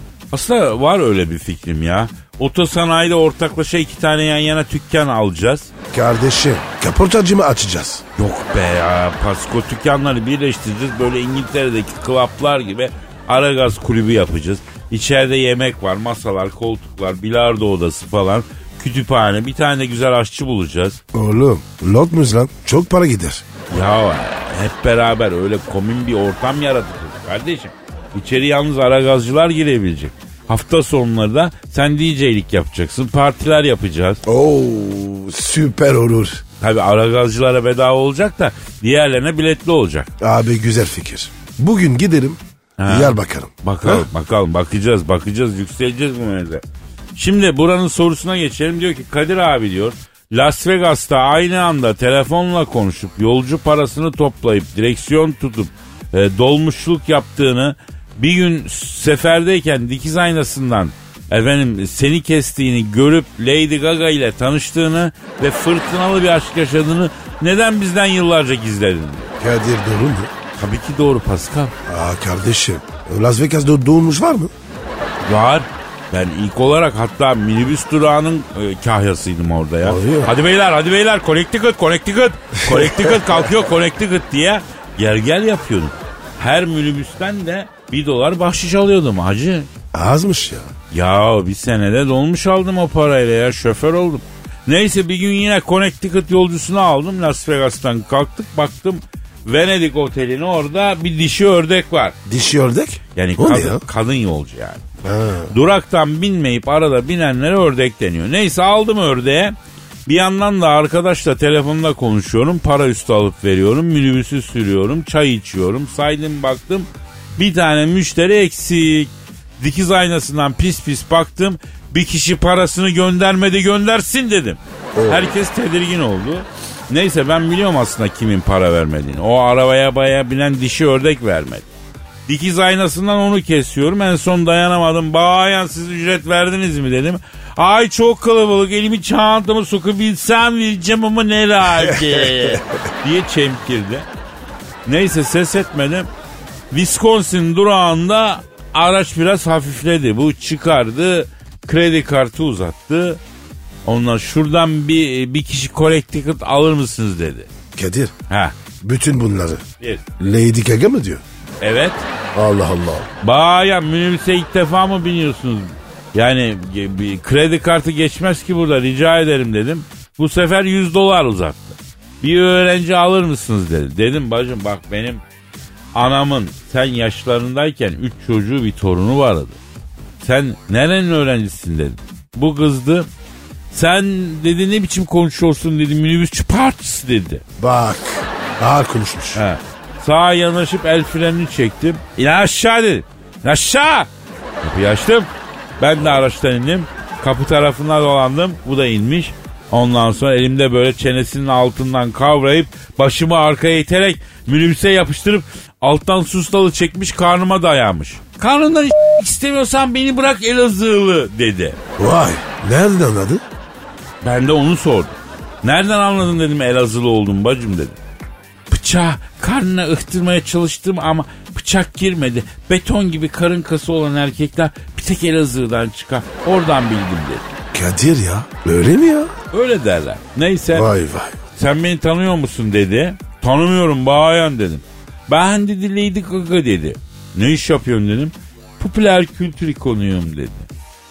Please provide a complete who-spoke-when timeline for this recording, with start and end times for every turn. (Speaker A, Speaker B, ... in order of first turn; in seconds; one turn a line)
Speaker A: 0.3-5.7
Speaker B: 5.9-8.0
Speaker A: 8.2-21.0
Speaker B: 21.1-23.4
Speaker A: 23.7-34.2
Speaker B: 34.2-36.4
Speaker A: 36.6-40.1
Speaker B: 40.2-44.1
Speaker A: 42.8-46.6
Speaker A: 47.1-69.3
Speaker B: 69.4-70.3
Speaker A: 70.6-71.7
Speaker B: 71.9-74.5
Speaker A: 75.2-89.7
Speaker B: 79.8-80.3
Speaker B: 82.7-83.4
Speaker B: 89.9-90.7
Speaker A: 90.9-102.2
Speaker B: 102.3-103.8
Speaker A: 103.2-104.8
Speaker B: 105.0-105.5
Speaker A: 105.5-109.5
Speaker A: 110.1-131.7
Speaker B: 125.0-125.4
Speaker A: 132.3-144.1
Speaker B: 141.8-142.6
Speaker A: 144.9-146.1
Speaker A: 146.7-153.2
Speaker A: 153.8-157.5
Speaker B: 157.8-158.1
Speaker A: 158.3-158.6
Speaker B: 158.8-159.6
Speaker B: 160.2-161.2
Speaker A: 161.6-162.1
Speaker B: 162.3-163.1
Speaker A: 163.2-175.2
Speaker A: 175.9-179.6
Speaker A: 180.2-183.1
Speaker A: 183.7-187.4
Speaker B: 187.6-189.4
Speaker A: 189.3-194.1
Speaker A: 194.6-211.8
Speaker B: 212.0-213.4
Speaker A: 214.2-218.0
Speaker A: 218.7-227.4
Speaker B: 227.7-229.3
Speaker A: 229.5-230.9
Speaker B: 230.7-231.4
Speaker A: 231.6-240.7